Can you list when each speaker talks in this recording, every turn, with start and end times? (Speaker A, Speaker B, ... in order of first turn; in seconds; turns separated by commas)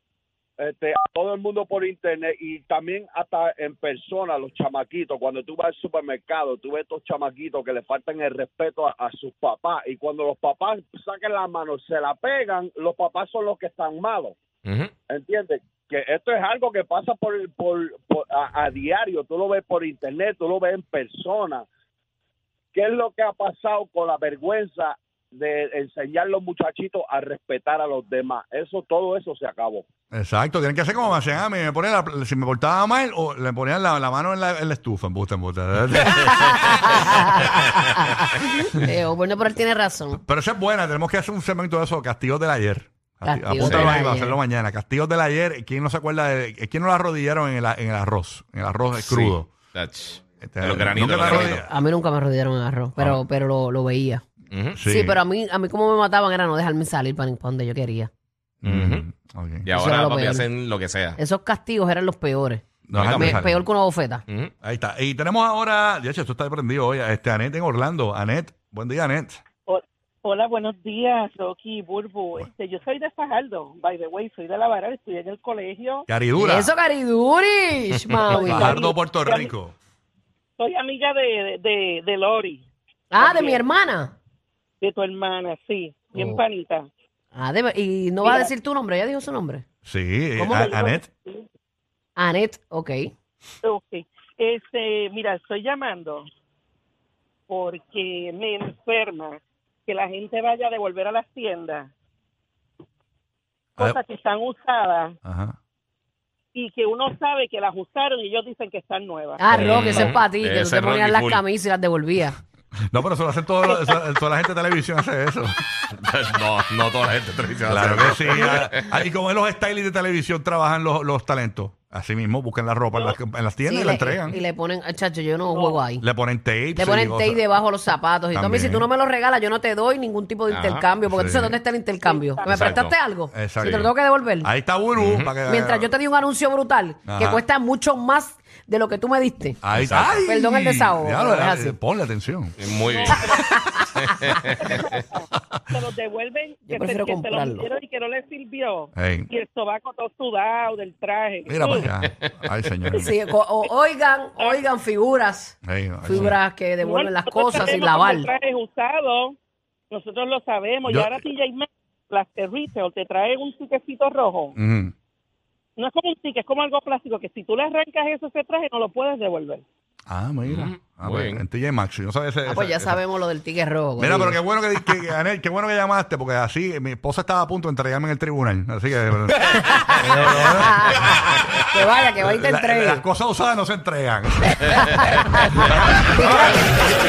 Speaker A: 0.6-14.3, Speaker B: 14.7-14.9, Speaker A: 15.1-21.6, Speaker A: 22.7-29.9, Speaker C: 30.1-37.1, Speaker D: 36.1-40.2, Speaker C: 40.2-49.5, Speaker D: 43.3-44.4, Speaker B: 43.6-43.9, Speaker B: 49.0-51.6, Speaker C: 50.4-51.7, Speaker D: 51.3-54.2, Speaker B: 54.5-54.8, Speaker C: 54.8-55.2, Speaker D: 54.9-58.1, Speaker C: 58.6-59.7, Speaker B: 58.6-59.0, Speaker B: 59.6-61.2, Speaker D: 59.7-60.5, Speaker D: 61.2-64.2, Speaker C: 62.9-63.6, Speaker B: 63.0-63.6, Speaker C: 64.6-69.4, Speaker E: 69.7-76.1, Speaker C: 76.1-76.7, Speaker D: 76.4-78.9, Speaker E: 78.3-79.5, Speaker C: 78.4-79.7, Speaker E: 80.6-82.7, Speaker D: 83.1-84.1, Speaker E: 83.2-83.6, Speaker E: 84.8-86.9, Speaker D: 86.2-86.4, Speaker D: 87.3-89.7, Speaker E: 88.2-88.5, Speaker C: 89.8-91.0, Speaker D: 90.4-90.7, Speaker E: 90.5-91.5, Speaker D: 92.2-93.1, Speaker E: 93.6-96.3, Speaker E: 97.5-101.9, Speaker E: 103.8-105.2, Speaker C: 105.2-105.6, Speaker E: 106.5-110.0, Speaker D: 109.4-112.4, Speaker B: 109.5-111.4, Speaker C: 112.9-115.6, Speaker E: 113.7-114.0, Speaker B: 115.9-118.9, Speaker C: 117.7-124.4, Speaker D: 123.7-126.0, Speaker E: 125.5-125.8, Speaker C: 126.0-127.4, Speaker D: 126.8-134.5, Speaker C: 128.3-128.9, Speaker B: 130.5-130.8, Speaker C: 131.1-131.6, Speaker E: 132.0-132.8, Speaker B: 132.5-132.9, Speaker C: 133.3-133.9, Speaker B: 133.6-133.9, Speaker C: 134.4-135.9, Speaker B: 135.0-135.3, Speaker D: 135.5-139.6, Speaker C: 137.1-137.4, Speaker C: 139.6-142.6, Speaker B: 139.7-140.1, Speaker D: 140.2-141.8, Speaker B: 142.6-143.3, Speaker E: 142.8-143.5, Speaker D: 143.3-143.6, Speaker B: 143.9-144.8, Speaker E: 144.6-151.9, Speaker D: 146.7-147.7, Speaker C: 148.9-149.3, Speaker C: 151.5-153.2, Speaker D: 153.0-158.3, Speaker E: 154.4-154.6, Speaker C: 155.6-156.4, Speaker E: 156.8-159.4, Speaker E: 159.9-164.5, Speaker C: 160.9-161.2, Speaker C: 164.6-164.9, Speaker E: 165.8-169.6, Speaker C: 170.1-173.0, Speaker B: 170.5-171.4, Speaker D: 172.5-174.4, Speaker C: 174.0-181.2, Speaker D: 179.7-183.0, Speaker C: 182.2-185.1, Speaker D: 184.8-185.5, Speaker C: 185.6-186.7, Speaker D: 186.1-186.9